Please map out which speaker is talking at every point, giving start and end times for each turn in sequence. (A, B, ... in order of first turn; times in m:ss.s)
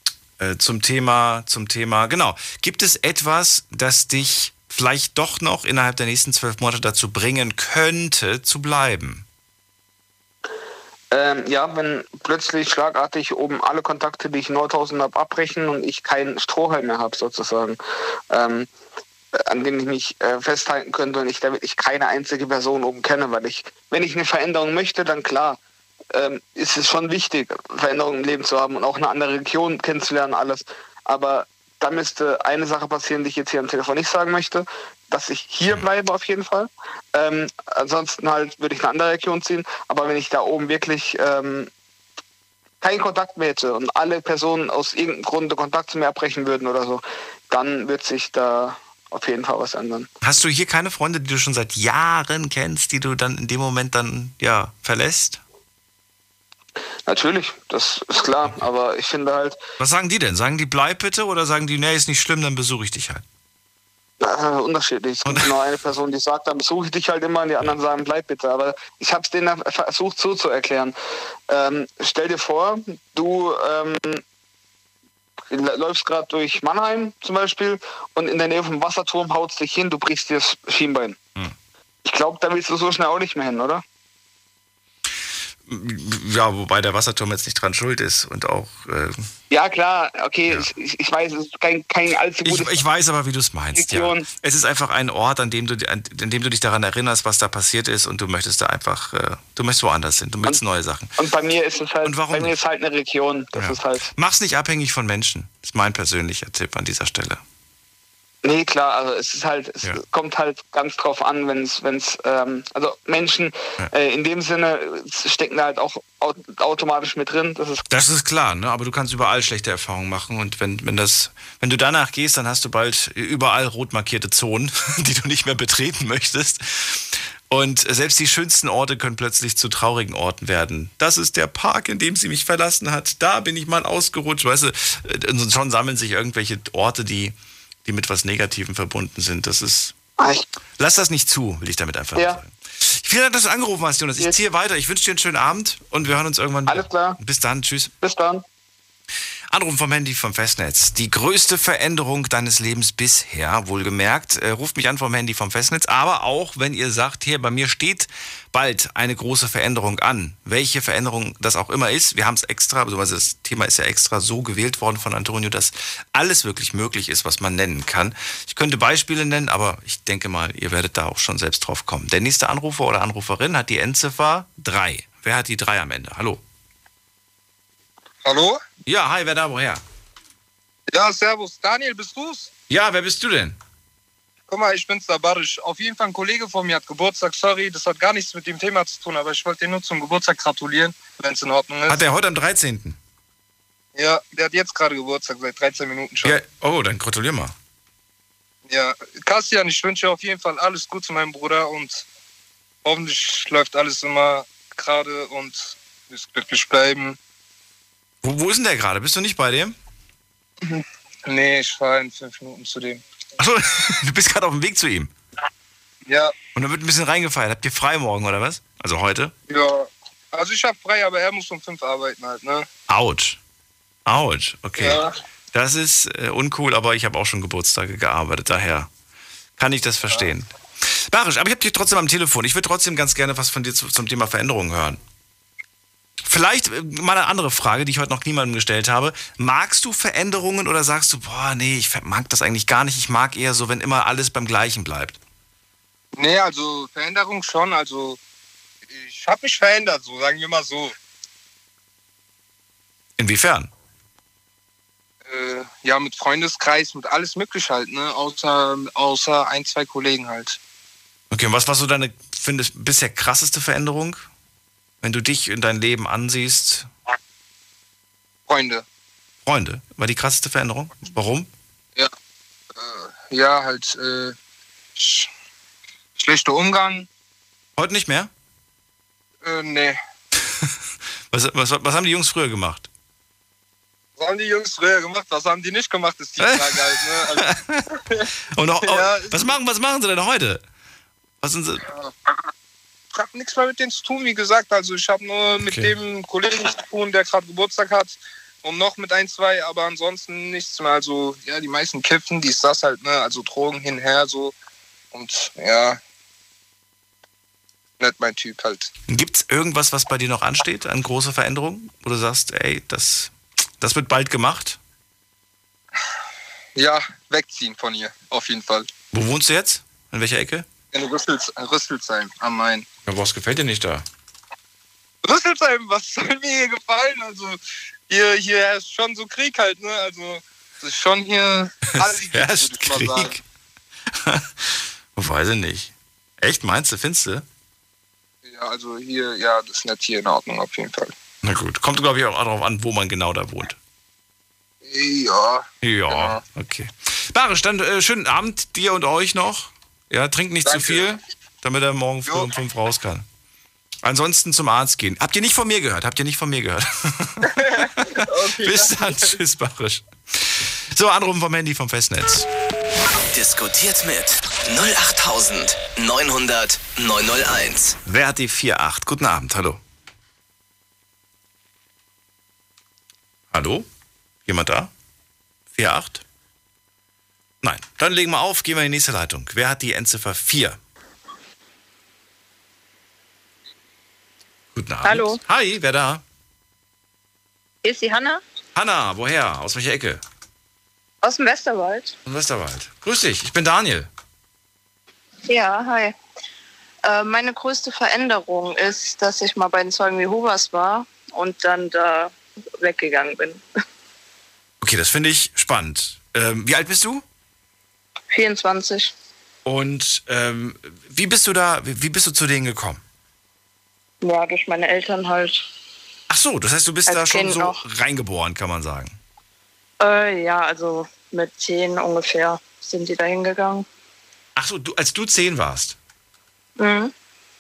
0:00.4-0:09.3 A
0:11.1-0:17.8 B
0:18.3-0:18.7 B
0:19.4-0:25.6 B
0:26.1-0:41.7 B
0:42.8-0:50.1 B
0:50.2-0:55.4 A
0:57.1-0:59.6 B
0:59.8-1:03.2 A
1:04.2-1:11.0 B
1:05.2-1:05.5 A
1:11.5-1:14.2 B
1:15.5-1:21.2 B
1:22.0-1:23.8 B
1:25.7-1:29.3 A
1:29.5-1:32.8 B
1:32.4-1:41.1 A
1:33.8-1:34.3 B
1:41.2-1:44.1 B
1:42.0-1:42.6 A
1:43.5-1:47.4 A
1:48.4-1:57.8 B
1:57.9-2:20.0 A
2:20.2-2:20.4 B
2:20.8-2:27.9 A
2:22.2-2:22.4 B
2:26.7-2:27.2 B
2:28.0-2:28.4 B
2:29.5-2:56.4 A
2:58.2-2:58.6 C
2:58.8-2:59.8 A
3:00.9-3:02.5 C
3:02.7-3:03.6 A
3:04.5-3:12.0 C
3:11.9-3:13.0 A
3:14.0-3:16.4 C
3:16.2-3:17.6 A
3:18.7-3:22.1 C
3:22.8-3:27.2 C
3:28.2-3:29.8 A
3:30.6-3:33.0 C
3:33.4-3:35.1 A
3:36.1-3:36.3 C
3:36.6-3:39.3 A
3:39.5-3:42.7 C
3:42.9-3:43.4 A
3:44.1-3:48.9 A
3:44.8-3:45.1 C
3:49.6-3:55.0 A
3:56.2-4:05.2 A
4:06.2-4:08.2 C
4:08.9-4:11.0 C
4:13.2-4:13.7 A
4:15.3-4:20.6 C
4:21.3-4:24.2 A
4:25.0-4:26.9 A
4:28.5-4:28.8 C
4:29.4-4:31.5 A
4:32.8-4:34.4 C
4:35.0-4:35.3 C
4:36.2-4:37.1 C
4:37.8-4:38.3 A
4:39.4-4:40.0 C
4:41.3-4:42.9 A
4:44.2-4:47.4 C
4:46.4-4:48.0 A
4:48.5-4:50.6 A
4:48.8-4:49.5 C
4:51.4-4:51.8 A
4:51.9-4:52.4 C
4:53.1-5:04.5 C
4:55.6-4:55.9 A
5:05.1-5:06.0 C
5:08.0-5:08.9 C
5:09.1-5:14.8 A
5:16.8-5:18.9 C
5:19.1-5:20.7 A
5:20.9-5:22.9 C
5:23.1-5:24.1 A
5:25.2-5:33.4 C
5:32.1-5:33.4 A
5:34.1-5:37.5 A
5:38.4-5:41.1 C
5:41.4-5:43.8 A
5:44.8-5:46.4 C
5:45.8-5:53.3 A
5:50.6-5:51.1 C
5:52.3-5:52.5 C
5:54.0-6:02.5 A
5:57.4-5:59.4 C
6:03.3-6:08.0 D
6:08.1-6:09.8 A
6:13.5-6:13.9 A
6:14.5-6:14.9 A
6:15.7-6:16.2 A
6:17.6-6:20.8 A
6:24.7-6:26.2 A
6:25.0-6:25.4 E
6:27.8-6:28.4 E
6:28.8-6:30.2 A
6:31.2-6:32.2 E
6:32.3-6:34.1 A
6:35.5-6:36.2 E
6:37.0-6:43.6 E
6:44.8-6:47.2 A
6:48.3-6:49.1 E
6:49.6-6:53.0 A
6:54.2-6:55.6 E
6:56.3-6:59.2 A
6:57.1-6:57.8 E
7:00.0-7:03.9 E
7:04.6-7:06.0 A
7:06.8-7:07.1 E